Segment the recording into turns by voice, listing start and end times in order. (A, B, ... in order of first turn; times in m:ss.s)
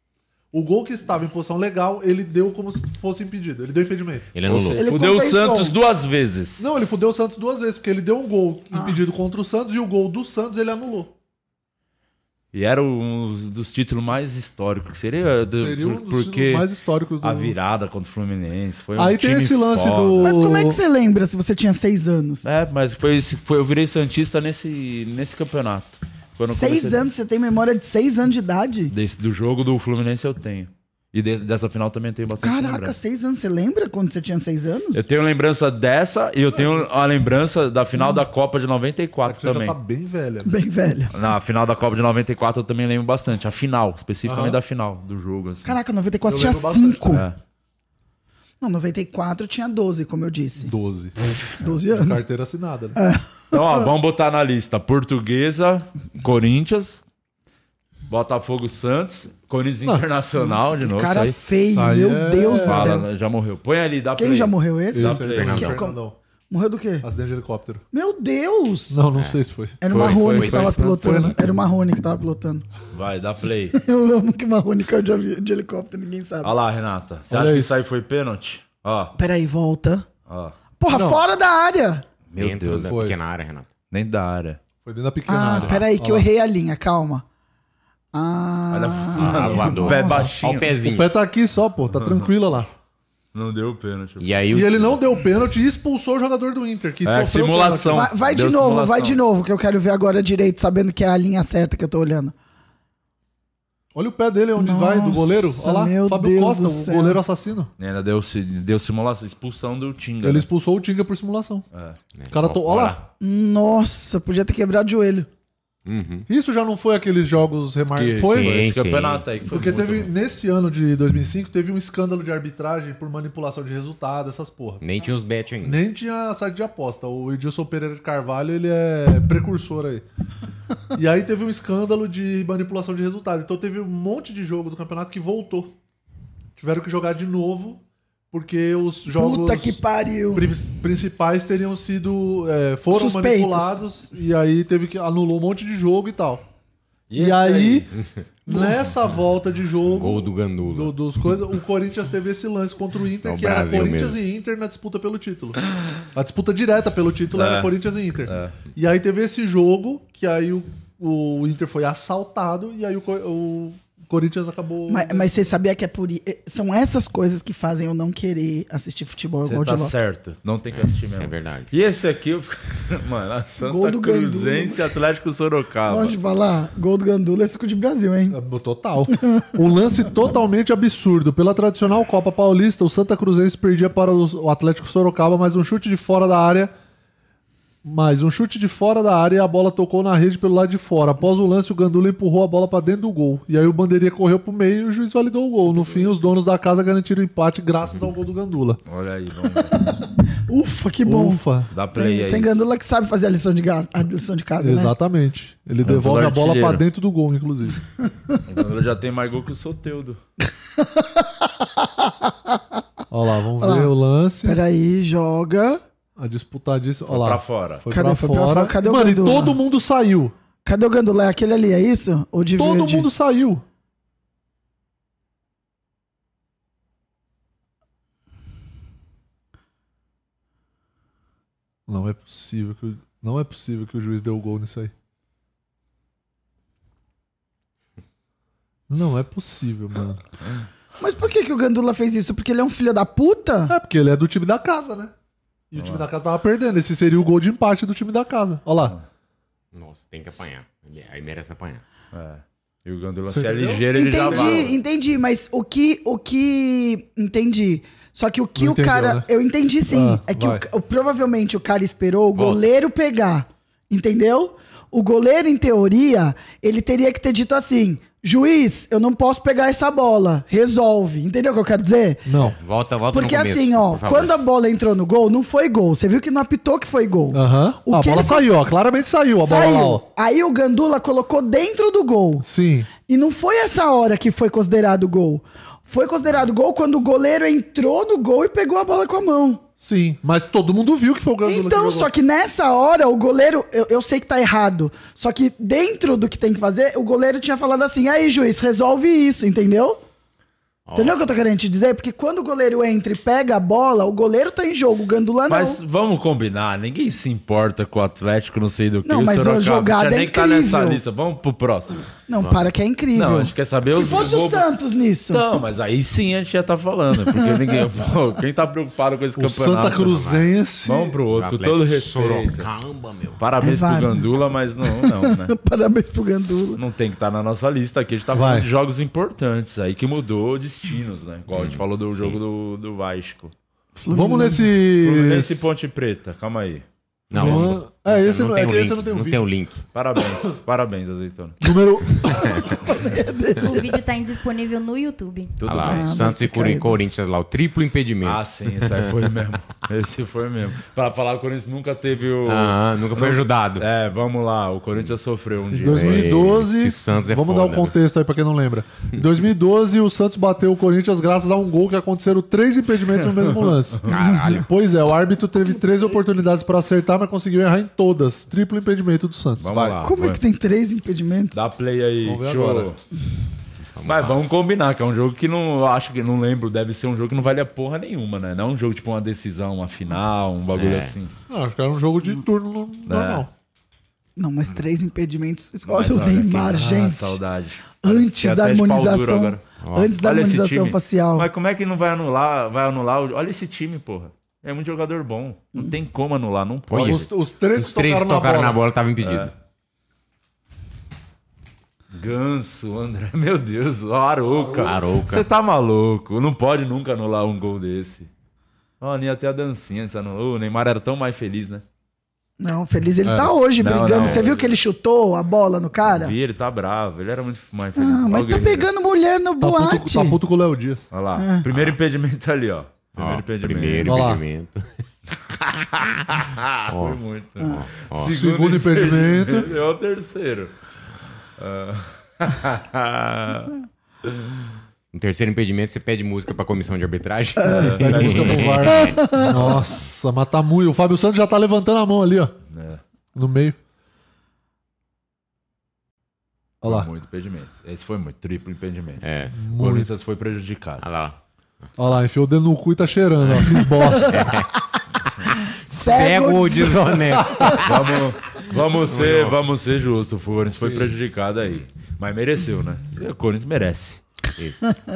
0:00.5-0:04.3 A
0:04.4-0:04.8 B
0:04.5-0:06.7 C
0:04.8-0:05.8 D
0:06.6-0:11.1 A
0:08.7-0:09.0 D
0:12.5-0:16.7 C
0:15.6-0:17.6 A
0:17.2-0:20.3 C
0:19.0-0:20.8 A
0:20.2-0:22.5 D
0:22.4-0:27.0 C
0:26.4-0:28.9 D
0:28.9-0:33.0 C
0:32.4-0:35.0 D
0:34.9-0:39.8 C
0:39.2-0:40.5 A
0:40.5-0:41.1 D
0:41.1-0:45.8 C
0:44.2-0:44.6 A
0:45.6-0:47.2 D
0:46.3-0:47.3 A
0:47.1-0:47.4 C
0:48.6-0:50.7 D
0:50.6-0:51.2 A
0:51.6-0:52.2 D
0:51.7-0:53.0 A
0:53.0-0:53.8 D
0:53.5-0:57.0 C
0:58.1-1:01.4 C
1:00.4-1:03.0 D
1:01.8-1:03.0 A
1:02.4-1:05.8 C
1:04.2-1:06.0 D
1:04.9-1:06.2 A
1:05.4-1:05.8 B
1:06.5-1:07.1 D
1:07.0-1:07.8 A
1:07.9-1:09.0 D
1:08.9-1:09.8 A
1:09.8-1:12.7 D
1:09.9-1:11.3 C
1:09.9-1:10.8 B
1:10.8-1:11.4 A
1:12.9-1:13.8 C
1:13.7-1:16.5 D
1:16.4-1:19.1 C
1:17.3-1:17.8 A
1:19.2-1:20.1 D
1:20.3-1:20.6 C
1:20.8-1:22.0 D
1:20.9-1:21.2 A
1:22.3-1:23.0 C
1:22.4-1:23.7 B
1:22.9-1:23.2 A
1:23.9-1:24.6 C
1:24.8-1:26.3 A
1:25.3-1:27.2 D
1:28.1-1:30.5 D
1:28.7-1:30.7 C
1:29.2-1:31.1 B
1:30.8-1:32.7 A
1:31.9-1:32.3 C
1:33.3-1:34.3 C
1:34.2-1:35.0 B
1:34.5-1:38.1 A
1:37.0-1:39.2 C
1:37.9-1:42.3 D
1:44.0-1:47.7 A
1:44.6-1:47.2 D
1:47.8-1:50.5 C
1:50.2-1:51.6 A
1:51.7-1:52.0 C
1:52.2-1:53.0 B
1:52.3-1:53.0 A
1:53.2-1:55.3 D
1:55.8-1:56.3 B
1:56.3-1:58.6 A
1:58.0-2:00.1 C
1:58.2-1:59.2 B
1:59.5-2:04.8 A
2:04.8-2:05.8 B
2:05.6-2:10.0 A
2:11.0-2:15.7 A
2:16.6-2:17.8 A
2:18.3-2:19.8 A
2:19.1-2:20.5 D
2:20.3-2:26.4 A
2:22.9-2:23.8 D
2:27.1-2:27.9 C
2:27.1-2:27.9 A
2:28.0-2:28.2 B
2:28.5-2:35.6 A
2:29.9-2:30.9 B
2:33.2-2:34.2 B
2:36.1-2:45.5 A
2:37.4-2:38.6 C
2:44.9-2:50.0 D
2:49.4-2:56.2 C
2:50.7-2:51.7 B
2:53.6-2:54.8 D
2:55.9-2:58.4 D
2:58.3-3:06.7 A
3:07.8-3:18.8 A
3:18.9-3:19.8 C
3:20.5-3:21.4 D
3:21.0-3:21.7 A
3:21.7-3:22.5 C
3:22.0-3:24.9 D
3:24.6-3:27.8 A
3:25.8-3:26.8 C
3:28.5-3:30.2 C
3:30.8-3:32.6 D
3:33.1-3:34.6 A
3:33.6-3:33.9 D
3:34.4-3:35.8 D
3:36.2-3:40.3 A
3:37.1-3:37.8 C
3:37.9-3:39.6 D
3:40.6-3:43.1 D
3:42.6-3:43.6 A
3:51.9-3:54.9 A
3:58.9-4:00.2 A
4:01.0-4:03.7 D
4:03.7-4:05.1 A
4:05.7-4:09.0 A
4:05.8-4:06.0 C
4:09.7-4:11.8 B
4:12.1-4:14.8 C
4:13.3-4:14.7 A
4:13.9-4:32.2 D
4:18.6-4:19.3 A
4:19.9-4:20.6 A
4:22.4-4:22.6 B
4:32.3-4:32.6 A
4:32.6-4:34.4 B
4:33.1-4:38.5 D
4:37.3-4:40.0 A
4:39.4-4:42.4 D
4:42.4-4:42.9 A
4:43.1-4:49.6 D
4:49.8-4:52.1 A
4:51.4-5:00.0 D
5:00.9-5:01.3 B
5:01.0-5:05.8 D
5:05.5-5:12.0 C
5:09.0-5:11.0 D
5:12.3-5:15.4 D
5:12.4-5:12.7 B
5:13.2-5:14.7 C
5:15.3-5:20.2 C
5:19.4-5:21.2 A
5:20.0-5:20.5 B
5:20.8-5:22.7 C
5:21.3-5:23.4 B
5:23.4-5:25.5 C
5:23.6-5:24.3 D
5:24.9-5:26.8 D
5:26.8-5:33.5 C
5:28.3-5:28.7 A
5:31.5-5:32.4 B
5:34.0-5:34.7 D
5:34.1-5:35.7 A
5:35.0-5:38.3 C
5:37.3-5:39.8 B
5:37.3-5:39.4 A
5:39.9-5:41.6 C
5:41.6-5:42.4 A
5:42.3-5:42.6 B
5:42.4-5:43.8 D
5:43.6-5:45.6 E
5:45.6-5:46.1 C
5:45.6-5:49.1 B
5:45.8-5:47.0 D
5:48.2-5:56.5 C
5:52.4-5:53.9 B
5:55.7-6:10.0 A
5:55.8-5:57.9 B
6:03.2-6:04.1 C
6:04.1-6:04.7 B
6:09.6-6:10.4 C
6:10.0-6:11.6 D
6:11.5-6:13.0 C
6:12.2-6:12.9 A
6:14.0-6:14.4 B
6:14.1-6:21.3 C
6:20.7-6:21.2 B
6:21.5-6:23.5 A
6:23.1-6:23.4 C
6:24.4-6:27.4 D
6:25.9-6:29.6 C
6:28.0-6:31.5 D
6:29.8-6:30.1 B
6:30.2-6:37.2 C
6:36.9-6:39.5 B
6:36.9-6:38.8 A
6:39.2-6:39.5 C
6:42.1-6:48.3 C
6:44.4-6:45.0 A
6:44.8-6:45.5 B
6:49.0-6:51.8 C
6:52.6-6:56.4 D
6:53.2-6:53.6 A
6:53.8-6:54.7 C
6:56.1-6:58.9 C
6:58.0-7:00.4 D
6:59.6-7:01.1 A
7:01.1-7:04.3 C
7:01.4-7:01.6 D
7:01.7-7:02.0 B
7:03.2-7:04.9 B
7:04.0-7:04.4 A
7:05.8-7:06.4 B
7:06.4-7:10.7 C
7:06.9-7:08.4 B
7:08.2-7:09.7 A
7:11.6-7:13.7 C
7:14.2-7:14.6 C
7:15.1-7:19.8 B
7:17.6-7:17.9 D
7:17.7-7:19.0 C
7:18.0-7:22.6 A
7:19.2-7:19.5 D
7:22.7-7:23.0 C
7:23.4-7:23.8 A
7:26.8-7:27.1 A
7:26.8-7:31.0 C
7:29.2-7:29.6 B
7:29.5-7:30.1 A
7:31.0-7:31.9 B
7:32.0-7:34.5 A
7:34.2-7:34.7 B
7:35.6-7:38.2 B
7:35.9-7:37.2 D
7:37.3-7:37.8 A
7:37.8-7:44.2 C
7:38.7-7:39.6 B